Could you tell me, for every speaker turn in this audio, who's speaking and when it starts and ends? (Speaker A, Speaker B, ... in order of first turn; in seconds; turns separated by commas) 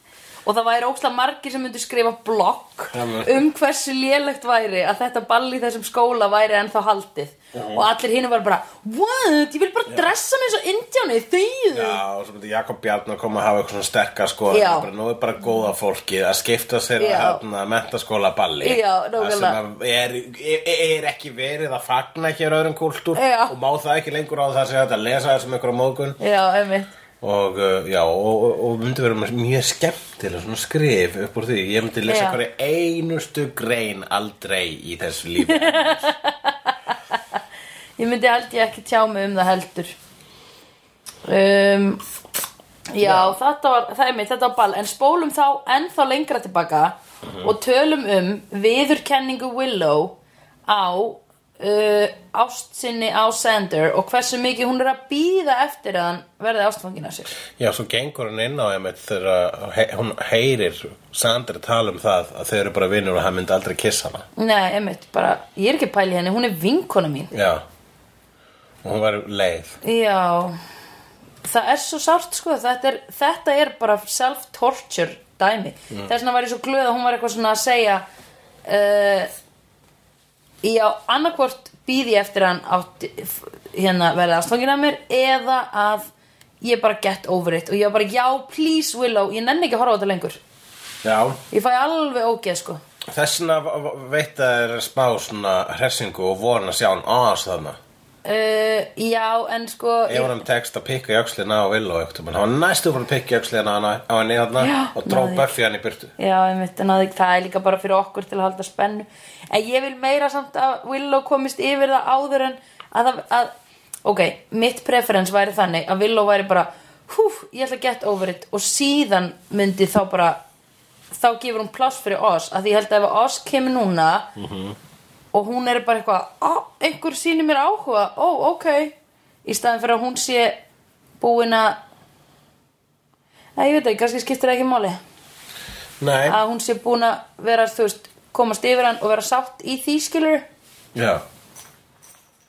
Speaker A: 0.4-12.0, Speaker B: 2.9-3.4, Speaker B: 7.5-7.9, Speaker B: 11.7-26.2, Speaker A: 14.5-14.9, Speaker A: 17.0-17.4, Speaker A: 18.6-19.6, Speaker A: 23.1-23.5, Speaker A: 26.2-26.9, Speaker B: 27.2-36.1, Speaker A: 32.1-32.4, Speaker A: 35.4-37.2, Speaker A: 38.0-39.9, Speaker A: 41.2-42.0, Speaker A: 42.9-50.1, Speaker B: 43.0-43.4, Speaker B: 47.2-47.5, Speaker A: 50.7-57.3, Speaker B: 57.5-64.2, Speaker A: 64.3-67.3, Speaker B: 67.3-67.6, Speaker B: 68.8-69.8, Speaker A: 69.8-70.6, Speaker A: 71.4-78.0, Speaker A: 78.6-79.3, Speaker A: 80.6-86.1, Speaker A: 86.6-90.4, Speaker B: 91.0-91.4, Speaker A: 91.5-92.8, Speaker B: 93.1-97.8, Speaker A: 98.2-100.3, Speaker B: 100.1-106.1, Speaker A: 104.6-105.5, Speaker A: 106.2-113.5, Speaker A: 114.0-120.4, Speaker A: 121.1-124.3, Speaker B: 124.3-124.8, Speaker A: 125.3-130.6, Speaker A: 131.2-131.8, Speaker A: 133.6-135.0, Speaker B: 136.0-136.4, Speaker A: 136.2-140.4, Speaker B: 140.9-141.2